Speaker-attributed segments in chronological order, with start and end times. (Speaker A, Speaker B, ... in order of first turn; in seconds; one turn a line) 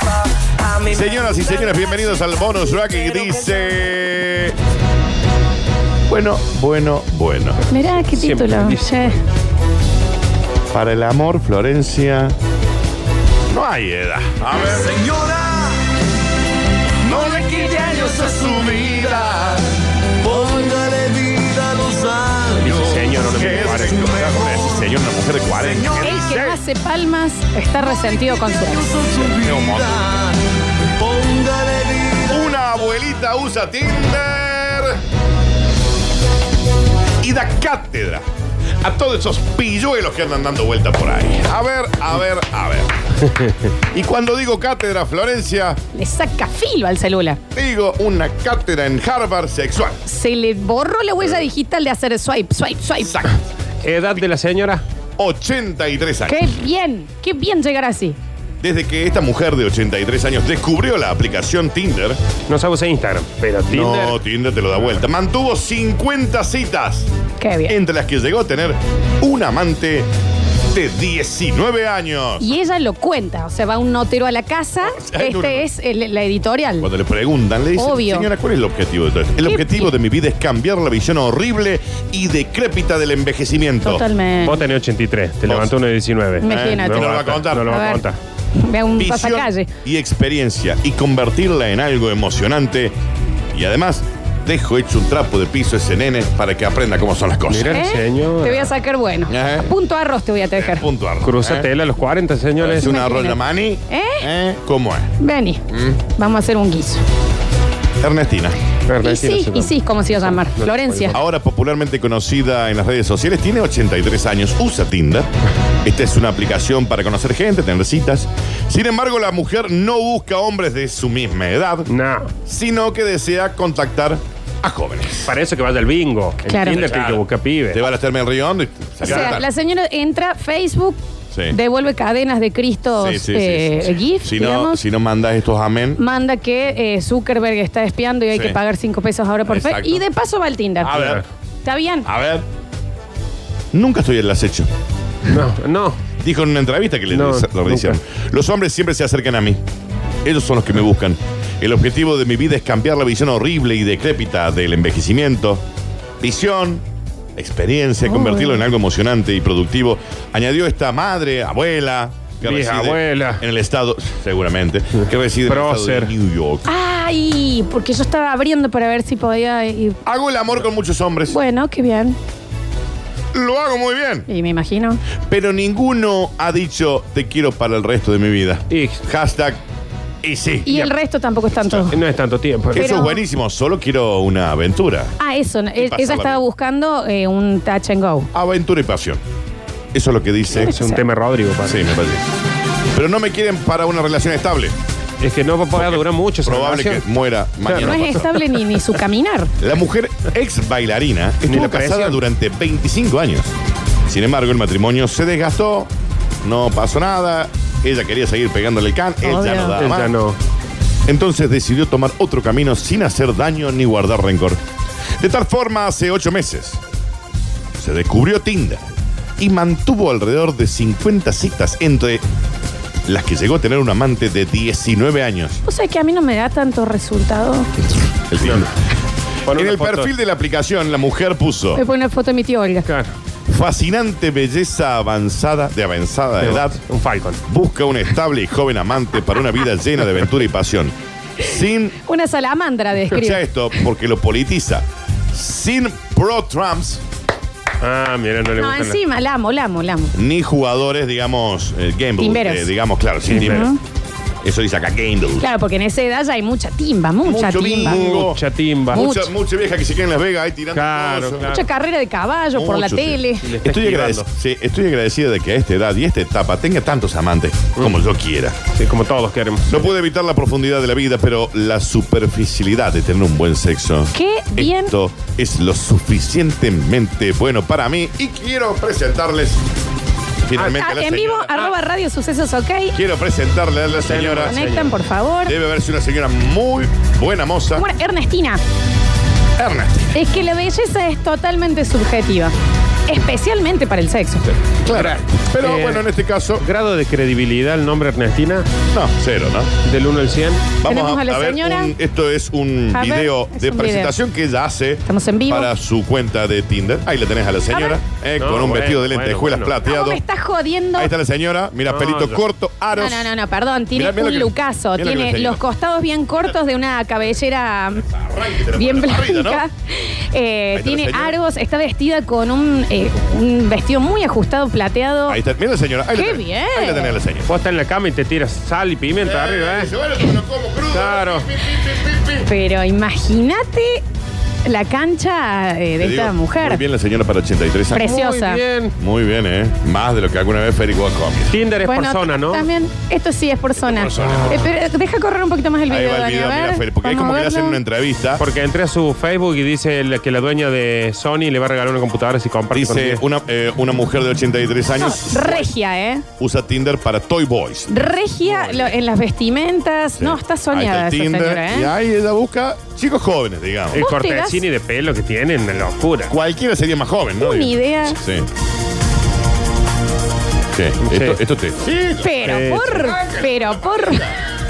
Speaker A: 0.8-4.5
Speaker A: 6.1-7.7
Speaker B: 7.7-9.2
Speaker C: 8.1-9.2
Speaker A: 10.7-12.3
Speaker A: 13.5-15.1
Speaker D: 15.2-15.7
Speaker A: 17.0-19.7
Speaker B: 17.3-17.9
Speaker D: 20.2-22.5
Speaker C: 22.5-24.1
Speaker A: 22.6-26.6
Speaker B: 25.9-29.1
Speaker D: 29.1-30.4
Speaker A: 29.2-30.3
Speaker D: 31.0-32.3
Speaker A: 32.2-35.0
Speaker A: 37.2-38.2
Speaker A: 38.8-45.8
Speaker B: 45.9-47.4
Speaker A: 47.5-50.0
Speaker B: 50.1-53.2
Speaker A: 53.0-53.4
Speaker C: 53.8-54.8
Speaker A: 55.2-56.4
Speaker B: 56.3-58.2
Speaker A: 58.6-62.2
Speaker C: 62.5-64.2
Speaker A: 63.7-67.1
Speaker B: 67.4-67.8
Speaker A: 67.7-70.1
Speaker A: 70.7-72.5
Speaker B: 72.4-76.9
Speaker A: 74.8-75.7
Speaker A: 76.8-84.0
Speaker B: 77.8-78.3
Speaker B: 79.4-79.9
Speaker B: 83.8-84.6
Speaker C: 84.4-88.2
Speaker A: 85.5-85.7
Speaker B: 86.4-88.0
Speaker A: 86.4-87.8
Speaker B: 88.5-89.7
Speaker A: 89.0-92.9
Speaker A: 93.5-97.8
Speaker C: 97.5-98.7
Speaker B: 97.7-100.9
Speaker A: 99.3-99.7
Speaker A: 100.6-101.7
Speaker C: 101.2-103.0
Speaker A: 102.6-105.1
Speaker B: 102.8-103.4
Speaker B: 103.9-104.3
Speaker B: 105.2-107.0
Speaker A: 105.7-106.0
Speaker A: 108.0-108.6
Speaker C: 108.9-111.2
Speaker B: 109.0-111.2
Speaker A: 111.1-115.3
Speaker A: 115.8-121.9
Speaker C: 121.9-122.3
Speaker A: 122.4-125.3
Speaker C: 125.2-127.8
Speaker B: 126.5-126.9
Speaker A: 126.9-127.2
Speaker A: 127.7-129.5
Speaker B: 129.0-131.0
Speaker C: 129.1-129.4
Speaker A: 131.3-131.6
Speaker B: 131.5-134.8
Speaker A: 132.9-136.0
Speaker B: 136.0-141.0
Speaker A: 138.3-138.6
Speaker A: 139.4-140.1
Speaker A: 140.8-141.2
Speaker C: 140.9-141.2
Speaker B: 141.6-142.1
Speaker A: 142.0-142.4
Speaker A: 143.7-144.7
Speaker C: 145.2-146.0
Speaker A: 146.2-149.6
Speaker C: 147.1-148.0
Speaker A: 150.2-155.6
Speaker A: 156.2-156.8
Speaker A: 157.4-166.7
Speaker B: 158.1-158.6
Speaker C: 162.4-163.4
Speaker C: 165.4-166.1
Speaker B: 166.7-170.0
Speaker A: 170.0-171.4
Speaker B: 171.3-172.2
Speaker A: 173.3-174.3
Speaker B: 174.3-175.0
Speaker A: 175.3-179.6
Speaker C: 178.7-179.0
Speaker A: 180.2-180.7
Speaker B: 180.7-182.0
Speaker A: 181.6-181.9
Speaker C: 181.9-182.9
Speaker A: 182.7-185.1
Speaker B: 182.8-183.2
Speaker B: 185.2-188.3
Speaker A: 185.8-186.4
Speaker A: 188.3-189.2
Speaker A: 189.9-190.7
Speaker B: 190.5-191.0
Speaker C: 190.7-191.9
Speaker A: 191.6-192.2
Speaker A: 192.9-194.7
Speaker C: 195.2-197.1
Speaker A: 195.8-198.3
Speaker C: 197.6-198.1
Speaker B: 197.8-199.5
Speaker A: 199.6-203.5
Speaker C: 201.5-202.2
Speaker A: 204.1-205.9
Speaker A: 206.4-210.1
Speaker B: 209.2-209.8
Speaker C: 209.7-210.4
Speaker A: 211.1-214.6
Speaker A: 215.2-216.8
Speaker A: 217.8-218.8
Speaker A: 219.4-222.2
Speaker A: 223.1-225.6
Speaker B: 225.6-227.7
Speaker A: 228.0-228.7
Speaker C: 228.4-228.7
Speaker C: 229.4-230.1
Speaker A: 229.5-231.8
Speaker B: 231.7-232.9
Speaker C: 232.8-233.1
Speaker A: 233.5-236.8
Speaker C: 236.4-237.4
Speaker A: 237.4-241.9
Speaker B: 242.0-243.4
Speaker A: 243.1-247.0
Speaker C: 247.8-249.0
Speaker B: 248.5-250.1
Speaker A: 250.1-253.7
Speaker B: 252.2-252.7
Speaker C: 253.2-253.7
Speaker B: 253.4-253.8
Speaker A: 254.4-255.5
Speaker B: 255.4-258.0
Speaker A: 257.2-258.4
Speaker C: 257.9-259.1
Speaker B: 258.9-259.3
Speaker A: 258.9-261.5
Speaker C: 260.7-261.7
Speaker B: 261.4-263.6
Speaker A: 262.5-268.6
Speaker C: 263.4-264.3
Speaker C: 267.8-268.0
Speaker C: 268.6-269.9
Speaker A: 269.7-279.6
Speaker B: 274.1-274.9
Speaker A: 280.4-281.5
Speaker B: 280.7-282.9
Speaker A: 282.9-284.6
Speaker C: 284.0-284.9
Speaker B: 284.4-285.6
Speaker A: 285.4-287.9
Speaker B: 287.7-288.6
Speaker A: 289.6-290.2
Speaker B: 290.1-292.5
Speaker B: 293.1-294.4
Speaker A: 294.5-296.6
Speaker C: 294.9-296.1
Speaker C: 296.6-298.7
Speaker A: 298.9-299.7
Speaker C: 299.8-300.8
Speaker A: 300.8-310.2
Speaker B: 300.8-301.9
Speaker B: 302.9-304.1
Speaker B: 305.1-305.7
Speaker B: 307.7-308.0
Speaker C: 308.4-309.8
Speaker B: 309.8-311.1
Speaker A: 310.9-313.3
Speaker C: 311.9-312.4
Speaker B: 312.9-325.4
Speaker A: 313.9-315.6
Speaker A: 318.1-319.6
Speaker A: 320.7-321.4
Speaker A: 325.3-327.5
Speaker B: 326.1-327.2
Speaker C: 327.5-329.9
Speaker A: 329.2-332.5
Speaker C: 330.9-331.5
Speaker B: 332.4-334.0
Speaker B: 334.6-336.8
Speaker A: 336.0-338.1
Speaker B: 337.9-338.6
Speaker C: 338.0-338.9
Speaker A: 339.0-341.5
Speaker C: 341.5-342.7
Speaker B: 341.8-347.8
Speaker A: 343.8-344.7
Speaker A: 345.9-348.4
Speaker C: 348.4-353.2
Speaker A: 352.7-355.7
Speaker B: 355.0-356.2
Speaker A: 356.4-358.0
Speaker B: 357.9-361.9
Speaker A: 360.2-364.0
Speaker B: 363.9-364.6
Speaker C: 363.9-366.3
Speaker A: 366.3-368.5
Speaker B: 367.4-368.2
Speaker A: 370.7-374.4
Speaker C: 371.0-371.4
Speaker B: 372.2-374.4
Speaker C: 372.4-373.1